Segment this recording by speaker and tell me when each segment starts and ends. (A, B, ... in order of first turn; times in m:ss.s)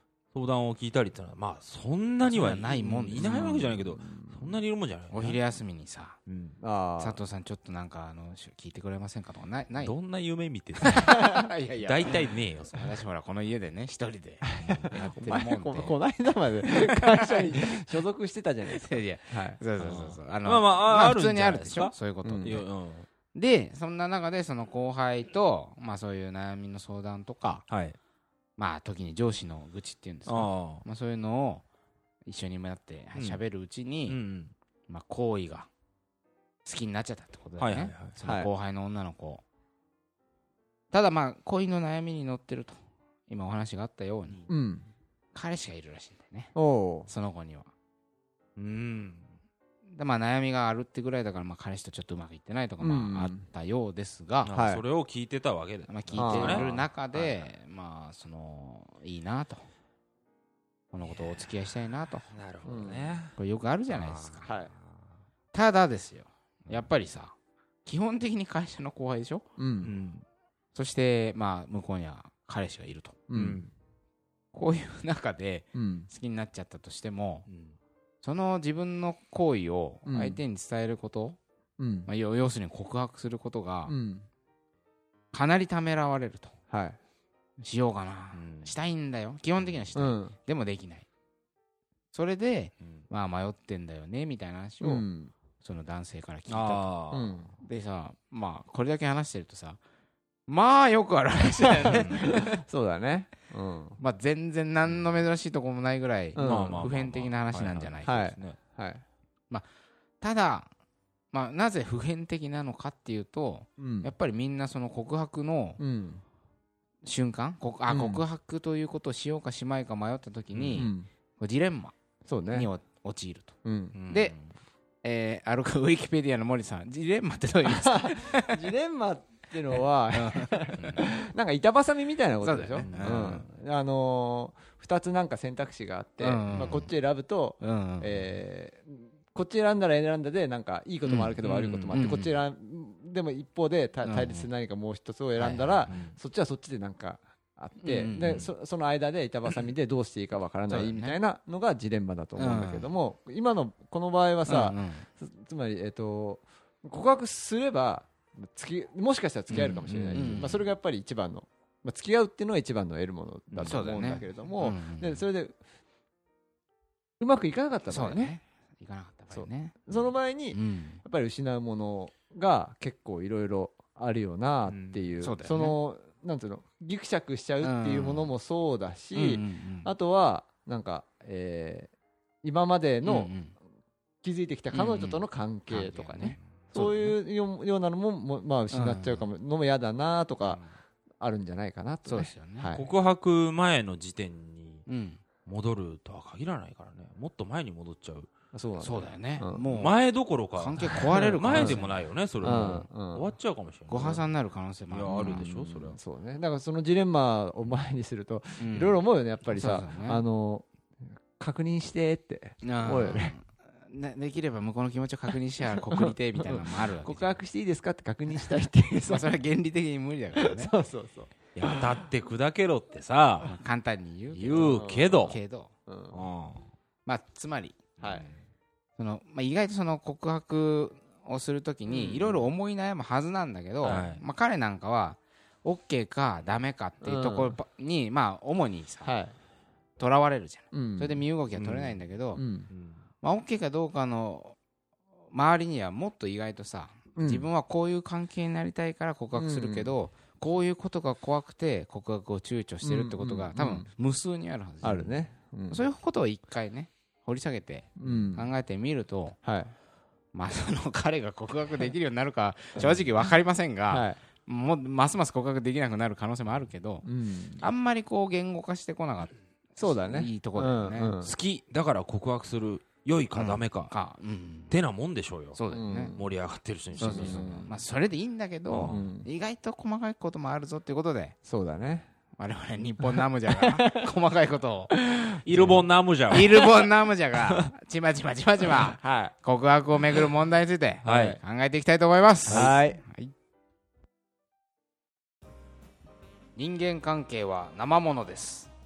0:00.3-0:05.4 A
0:02.2-0:03.7 B
0:03.2-0:04.6 C
0:05.1-0:06.2 B
0:06.3-0:06.6 A
0:06.6-0:07.2 C
0:07.0-0:09.9 B
0:09.7-0:13.0 A
0:10.8-0:12.1 B
0:12.7-0:16.0 B
0:14.6-0:14.9 A
0:14.6-0:19.6 C
0:16.6-0:17.8 B
0:18.7-0:22.6 B
0:19.8-0:23.1 A
0:22.2-0:22.6 C
0:23.3-0:27.6 B
0:27.7-0:28.0 A
0:28.6-0:31.6 B
0:30.3-0:30.8 A
0:32.2-0:34.2 B
0:33.1-0:33.4 A
0:34.1-0:34.5 A
0:34.9-0:35.7 B
0:36.6-0:39.4 B
0:37.6-0:38.2 A
0:38.2-0:38.5 C
0:40.9-0:44.4 B
0:44.5-0:44.9 C
0:45.3-0:46.5 B
0:46.5-0:47.1 C
0:47.1-0:47.7 B
0:48.6-0:49.3 A
0:49.9-0:54.5 B
0:52.8-0:53.5 C
0:54.4-0:57.4 A
0:54.5-0:54.8 C
0:55.9-0:59.6 B
0:56.2-0:56.7 C
1:00.9-1:02.3 B
1:02.3-1:03.3 A
1:02.6-1:03.2 C
1:03.3-1:04.5 B
1:03.9-1:05.1 A
1:05.5-1:09.4 B
1:09.6-1:09.9 C
1:09.8-1:10.2 A
1:10.7-1:13.2 B
1:13.3-1:13.7 C
1:13.3-1:13.7 A
1:14.5-1:17.4 B
1:15.7-1:16.1 C
1:17.5-1:17.8 A
1:18.2-1:21.4 B
1:20.0-1:20.4 C
1:21.8-1:22.1 C
1:22.1-1:23.9 B
1:23.8-1:24.2 C
1:25.3-1:26.5 B
1:26.7-1:27.0 C
1:27.6-1:31.0 B
1:28.3-1:28.7 A
1:29.6-1:29.9 A
1:29.9-1:30.4 C
1:32.1-1:35.1 B
1:34.8-1:35.3 C
1:35.6-1:36.9 B
1:36.5-1:37.4 A
1:37.1-1:37.5 C
1:37.6-1:39.8 B
1:40.5-1:42.5 B
1:41.8-1:42.3 A
1:41.9-1:44.0 C
1:44.0-1:48.2 B
1:46.3-1:46.9 C
1:46.4-1:48.6 A
1:48.0-1:49.0 C
1:50.2-1:50.7 B
1:51.3-1:55.8 B
1:53.8-1:54.1 C
1:55.8-1:56.2 C
1:57.0-2:01.9 B
1:57.9-1:58.2 C
2:00.5-2:00.9 A
2:00.8-2:01.1 C
2:02.2-2:02.7 C
2:02.5-2:03.5 B
2:03.6-2:04.0 C
2:03.9-2:04.5 A
2:04.1-2:04.3 B
2:05.0-2:08.6 B
2:07.6-2:45.6 C
2:10.1-2:11.0 B
2:12.4-2:13.4 B
2:12.8-2:13.4 A
2:16.2-2:16.9 B
2:17.6-2:18.2 B
2:21.0-2:21.4 B
2:21.4-2:22.0 A
2:21.9-2:22.3 B
2:24.0-2:24.5 B
2:25.4-2:25.9 B
2:25.9-2:26.2 A
2:27.8-2:28.5 B
2:30.7-2:31.2 B
2:32.4-2:32.9 B
2:34.4-2:35.0 B
2:39.5-2:40.7 B
2:39.9-2:40.4 A
2:43.5-2:45.2 B
2:47.2-2:48.3 C
2:47.9-2:51.0 B
2:49.3-3:01.9 C
2:54.6-2:55.2 A
2:55.2-2:55.8 B
2:57.6-2:58.3 B
2:59.1-2:59.9 B
3:02.4-3:03.3 C
3:03.0-3:03.5 B
3:04.2-3:10.6 C
3:04.7-3:07.2 B
3:08.7-3:09.3 B
3:10.4-3:10.7 A
3:11.2-3:12.9 C
3:12.0-3:12.7 B
3:12.7-3:14.8 A
3:14.9-3:15.2 B
3:15.4-3:18.3 A
3:18.5-3:19.6 C
3:18.8-3:22.0 B
3:19.7-3:24.3 A
3:21.1-3:21.8 C
3:22.4-3:23.3 C
3:23.9-3:25.4 B
3:24.9-3:26.0 A
3:25.1-3:30.7 C
3:28.6-3:30.2 B
3:31.3-3:33.4 C
3:32.6-3:37.4 B
3:35.9-3:39.3 C
3:39.0-3:40.7 B
3:40.4-3:42.0 C
3:41.5-3:43.6 A
3:43.4-3:45.7 B
3:44.3-3:45.4 A
3:44.6-3:46.2 C
3:46.1-3:46.6 A
3:47.0-3:47.8 B
3:48.0-3:48.3 C
3:48.0-3:48.4 A
3:49.0-3:59.2 B
3:51.9-3:52.4 C
3:53.8-3:54.2 A
3:57.0-3:57.6 C
3:59.0-3:59.3 C
4:00.0-4:02.4 B
4:00.7-4:01.2 C
4:01.5-4:02.0 A
4:02.4-4:02.7 C
4:02.7-4:03.0 A
4:03.2-4:04.6 B
4:05.3-4:19.4 B
4:07.2-4:07.5 C
4:09.3-4:09.9 C
4:12.8-4:13.9 C
4:14.8-4:15.8 C
4:18.0-4:18.5 C
4:19.4-4:19.7 C
4:20.3-4:27.0 B
4:23.9-4:24.2 C
4:27.0-4:27.6 C
4:27.6-4:31.1 B
4:29.8-4:31.3 C
4:31.2-4:33.9 A
4:33.3-4:34.7 B
4:34.7-4:37.7 A
4:35.5-4:36.2 B
4:35.7-4:36.2 C
4:37.0-4:41.3 B
4:37.0-4:37.7 C
4:38.7-4:39.0 A
4:38.9-4:39.3 C
4:41.4-4:42.1 C
4:42.4-4:44.9 B
4:43.0-4:43.9 C
4:44.9-4:45.8 C
4:45.4-4:46.7 A
4:46.3-4:53.3 B
4:49.0-4:49.3 C
4:51.0-4:51.4 C
4:51.0-4:51.4 A
4:52.5-4:53.0 C
4:52.5-4:52.8 A
4:56.6-4:58.7 B